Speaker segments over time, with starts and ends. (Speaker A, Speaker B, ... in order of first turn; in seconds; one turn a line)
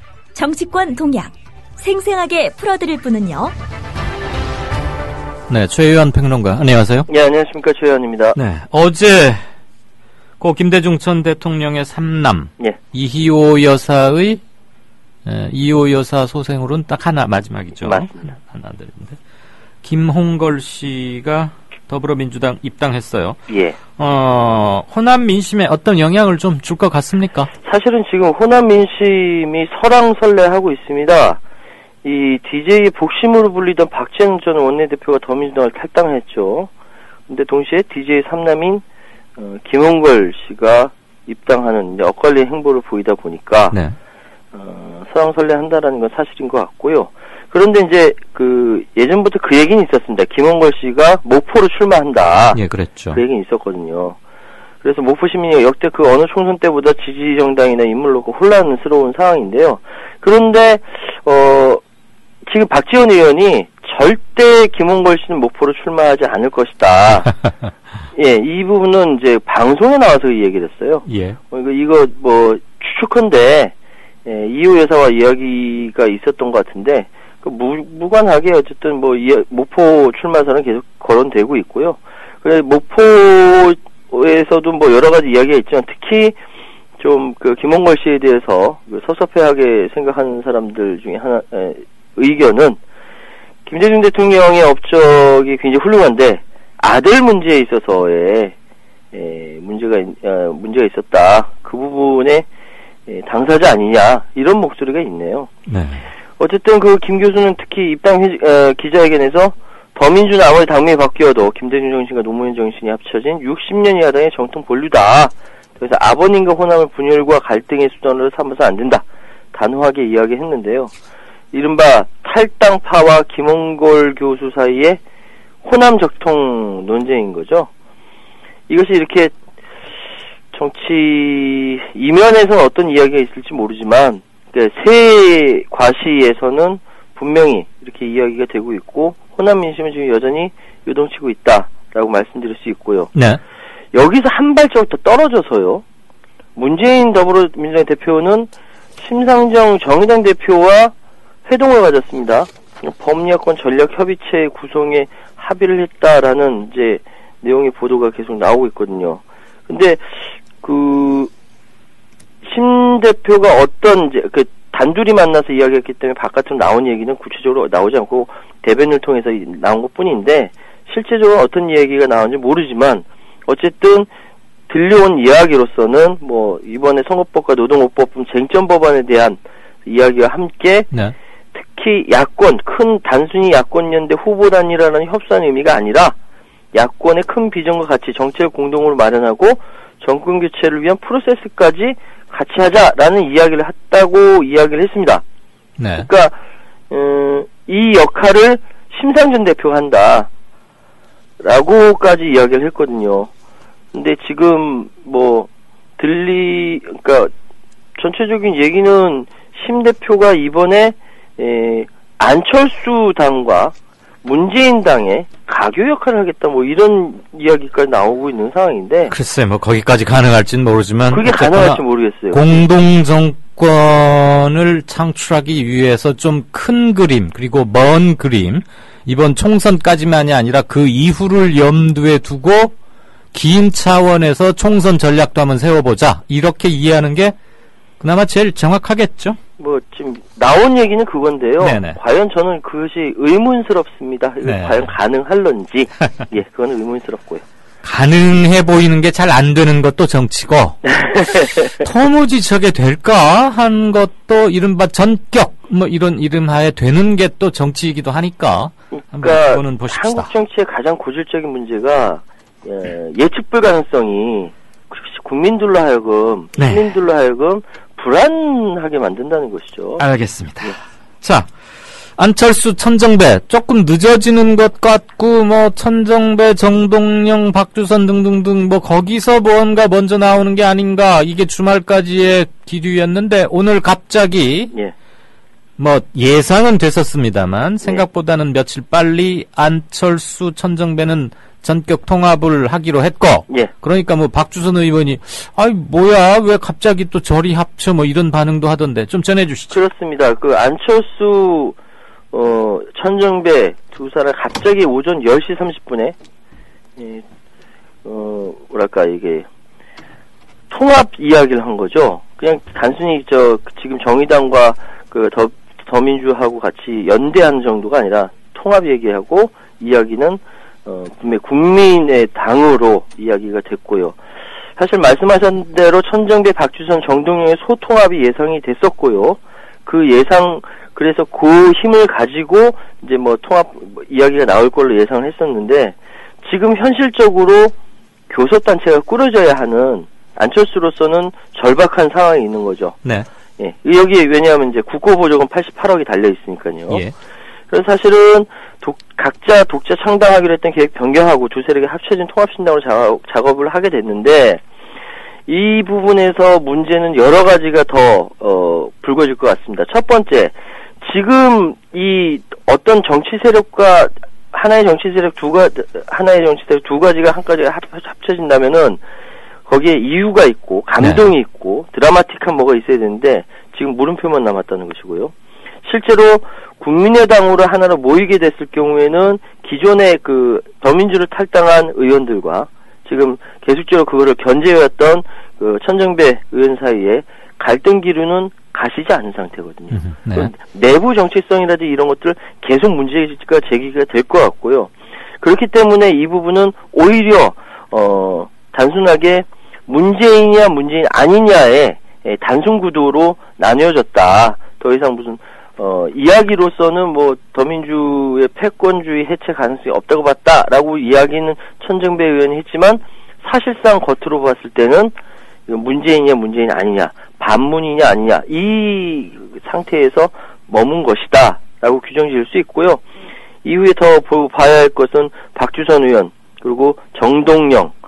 Speaker A: 0.3-3.5
Speaker B: 5.5-7.1
Speaker C: 7.1-8.3
Speaker B: 8.3-9.4
Speaker B: 10.4-14.4
Speaker B: 15.2-19.2
Speaker C: 17.8-18.2
Speaker B: 19.8-23.4
Speaker C: 23.5-23.8
Speaker B: 24.0-27.5
Speaker C: 27.6-31.4
Speaker C: 32.0-36.7
Speaker C: 37.3-38.8
Speaker C: 39.4-43.7
Speaker C: 44.5-52.6
Speaker B: 52.5-53.2
Speaker C: 53.1-54.2
Speaker C: 54.8-61.8
Speaker C: 62.5-67.3
Speaker C: 68.1-73.7
Speaker B: 71.1-71.4
Speaker C: 74.2-86.4
Speaker C: 87.0-92.8
Speaker C: 93.7-98.5
Speaker C: 99.1-102.5
Speaker C: 103.1-105.5
Speaker B: 105.7-106.0
Speaker C: 106.4-120.9
Speaker C: 121.5-125.0
Speaker C: 125.6-127.7
Speaker C: 128.7-129.3
Speaker C: 130.5-143.1
Speaker B: 143.1-143.4
Speaker C: 143.9-145.8
Speaker C: 146.6-150.9
Speaker C: 151.4-161.3
Speaker C: 162.4-174.1
Speaker C: 174.7-180.9
Speaker C: 181.5-186.2
Speaker C: 186.7-195.2
Speaker B: 195.8-196.1
Speaker C: 196.0-196.3
Speaker C: 196.9-200.3
Speaker C: 201.4-203.3
Speaker C: 203.9-207.3
Speaker C: 208.0-219.1
Speaker B: 219.1-232.7
Speaker C: 221.1-222.6
Speaker B: 233.3-237.3
Speaker B: 238.0-239.4
Speaker C: 239.6-247.4
Speaker B: 241.6-242.0
Speaker B: 244.4-244.9
Speaker B: 247.8-250.8
Speaker C: 250.8-251.8
Speaker B: 251.8-260.3
Speaker C: 258.9-270.0
Speaker B: 266.6-266.8
Speaker B: 270.0-271.5
Speaker B: 272.1-284.7
Speaker B: 285.8-299.8
Speaker C: 299.7-301.8
Speaker C: 302.3-306.1
Speaker C: 307.0-307.2
Speaker C: 308.0-309.4
Speaker C: 310.7-324.1
Speaker C: 324.8-337.7
Speaker C: 338.3-343.0
Speaker C: 343.6-347.1
Speaker C: 347.7-354.6
Speaker C: 355.5-369.0
Speaker C: 369.7-375.3
Speaker C: 375.8-415.1
Speaker B: 389.9-390.5
Speaker C: 415.7-423.0
Speaker C: 423.6-427.9